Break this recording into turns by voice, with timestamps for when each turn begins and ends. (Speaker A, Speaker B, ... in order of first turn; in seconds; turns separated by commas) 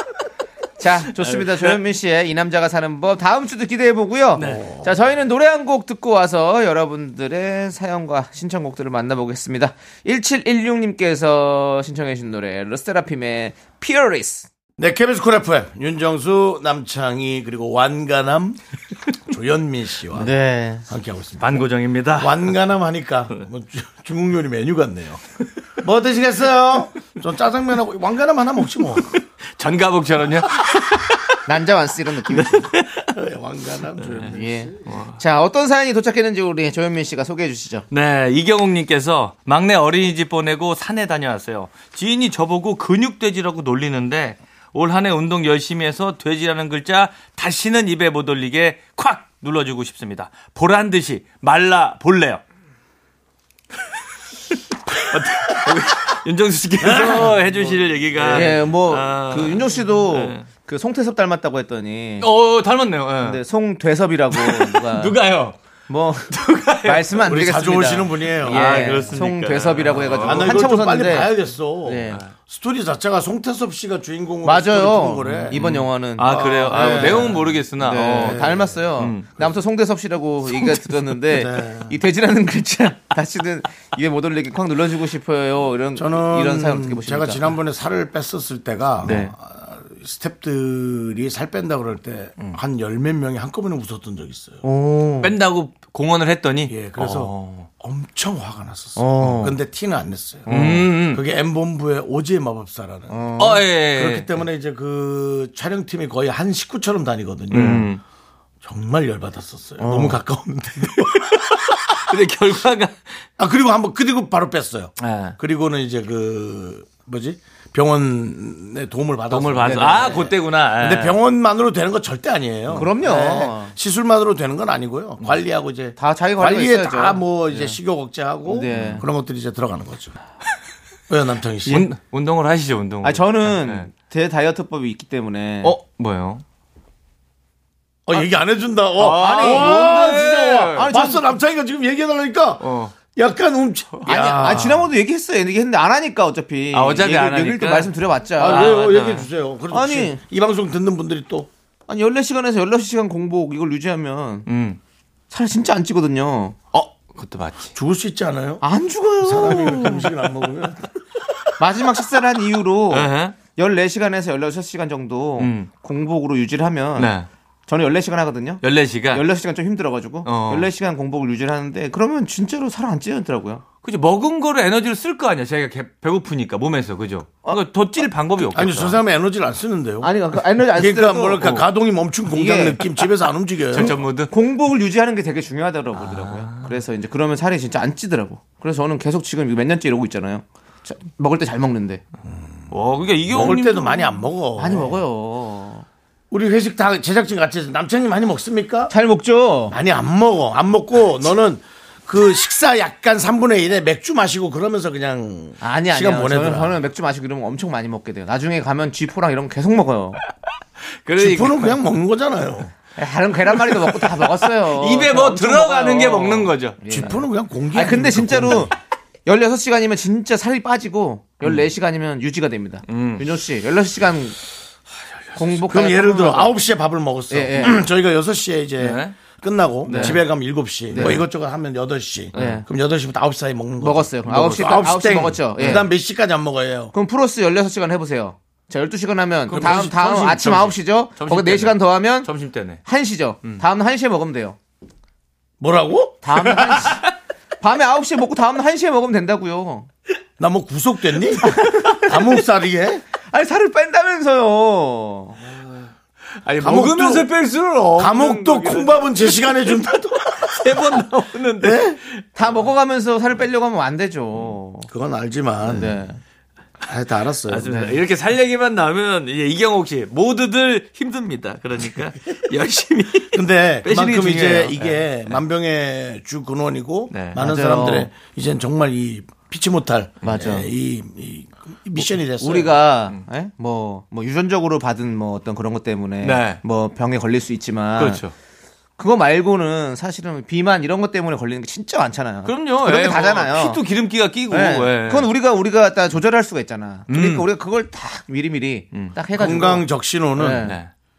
Speaker A: 0.8-14.5, Speaker B: 1.2-1.8, Speaker B: 4.3-4.6, Speaker C: 4.4-4.9, Speaker C: 14.8-18.6, Speaker C: 19.2-20.3, Speaker A: 20.1-20.9, Speaker C: 20.9-25.2, Speaker B: 21.4-22.5, Speaker C: 25.8-29.2, Speaker B: 29.6-31.4, Speaker A: 31.4-32.7, Speaker B: 32.3-33.1, Speaker C: 33.1-34.8, Speaker B: 34.0-34.3, Speaker A: 34.3-37.9, Speaker B: 34.9-35.2, Speaker B: 37.9-52.4, Speaker B: 55.0-60.5, Speaker C: 56.8-58.5, Speaker A: 58.3-62.3, Speaker B: 62.2-63.4, Speaker A: 63.2-65.2, Speaker B: 64.3-65.5, Speaker A: 65.9-71.3, Speaker B: 66.3-67.2, Speaker C: 67.3-69.0, Speaker B: 68.3-70.6, Speaker C: 70.2-75.6, Speaker A: 71.8-72.2, Speaker A: 74.4-87.5, Speaker B: 75.2-79.3, Speaker C: 76.2-77.6, Speaker C: 78.2-78.8, Speaker C: 81.3-82.0, Speaker C: 86.0-94.6, Speaker A: 89.0-89.3, Speaker A: 94.6-95.3, Speaker B: 95.2-97.7, Speaker C: 96.7-107.9, Speaker A: 99.0-99.6, Speaker A: 100.5-100.9, Speaker B: 100.5-101.2, Speaker A: 103.1-103.7, Speaker B: 103.4-104.3, Speaker B: 107.5-108.0, Speaker C: 108.6-111.4, Speaker A: 109.8-110.2, Speaker B: 111.3-113.0, Speaker C: 113.4-130.2, Speaker B: 115.0-115.4, Speaker B: 119.3-121.2, Speaker A: 119.6-120.3, Speaker A: 122.7-123.7, Speaker A: 126.0-127.8, Speaker A: 128.4-129.0, Speaker B: 128.7-129.0, Speaker C: 131.1-131.9, Speaker B: 131.7-133.9, Speaker A: 133.0-135.8, Speaker B: 135.6-136.4, Speaker C: 138.1-144.8, Speaker B: 139.0-140.9, Speaker A: 139.1-141.3, Speaker B: 142.6-143.0, Speaker B: 144.0-144.7, Speaker A: 144.1-148.9, Speaker B: 146.7-149.3, Speaker C: 148.4-151.5, Speaker A: 149.7-150.2, Speaker A: 151.9-154.4, Speaker B: 154.4-154.8, Speaker A: 155.3-156.6, Speaker B: 156.7-157.7, Speaker C: 157.7-158.6, Speaker A: 158.6-160.1, Speaker C: 159.2-160.9, Speaker A: 161.6-167.1, Speaker B: 162.9-163.4, Speaker B: 165.4-165.7, Speaker B: 167.0-167.3, Speaker A: 167.7-173.6, Speaker B: 168.6-169.2, Speaker B: 170.2-170.7, Speaker B: 173.8-179.0, Speaker C: 178.5-180.1, Speaker A: 180.0-181.6, Speaker C: 180.7-183.9, Speaker A: 182.3-182.9, Speaker B: 183.7-184.3, Speaker A: 183.7-192.0, Speaker B: 185.9-186.7, Speaker B: 192.7-194.1, Speaker C: 193.3-195.0, Speaker A: 194.6-195.8, Speaker C: 196.3-198.9, Speaker A: 198.9-199.8, Speaker C: 199.7-206.8, Speaker A: 205.6-210.2, Speaker B: 211.0-211.8, Speaker C: 211.2-212.7, Speaker A: 212.9-218.7, Speaker B: 213.9-216.8, Speaker C: 216.9-218.7, Speaker A: 219.2-224.4, Speaker B: 222.9-223.2, Speaker A: 225.3-226.5, Speaker C: 225.7-236.9, Speaker A: 227.3-227.8, Speaker B: 228.8-229.2, Speaker A: 229.8-230.2, Speaker B: 229.9-230.2, Speaker A: 230.9-231.2, Speaker B: 230.9-231.2, Speaker B: 232.3-232.6, Speaker A: 232.3-232.6, Speaker A: 233.8-235.9, Speaker B: 235.6-235.8, Speaker A: 236.9-242.3, Speaker B: 239.5-242.8, Speaker C: 239.5-240.7, Speaker A: 242.8-244.6, Speaker C: 245.6-246.2, Speaker A: 246.2-247.0, Speaker B: 246.6-247.1, Speaker A: 247.6-249.9, Speaker C: 250.4-253.0, Speaker A: 251.4-252.1, Speaker A: 253.3-255.4, Speaker B: 255.5-255.9, Speaker B: 256.4-262.2, Speaker C: 256.6-257.3, Speaker C: 257.9-260.8, Speaker C: 261.6-262.0, Speaker A: 262.4-264.9, Speaker C: 264.9-266.0, Speaker A: 265.6-266.2, Speaker C: 266.8-267.7, Speaker B: 267.5-275.4, Speaker A: 267.6-268.0, Speaker C: 273.3-282.8, Speaker B: 277.1-277.4, Speaker A: 277.4-278.1, Speaker A: 280.2-280.7, Speaker A: 282.4-288.2, Speaker B: 286.2-286.6, Speaker B: 288.0-288.3, Speaker A: 289.0-293.8, Speaker B: 292.4-295.3, Speaker A: 294.5-300.8, Speaker B: 297.1-297.4, Speaker C: 299.4-300.6, Speaker B: 300.6-300.9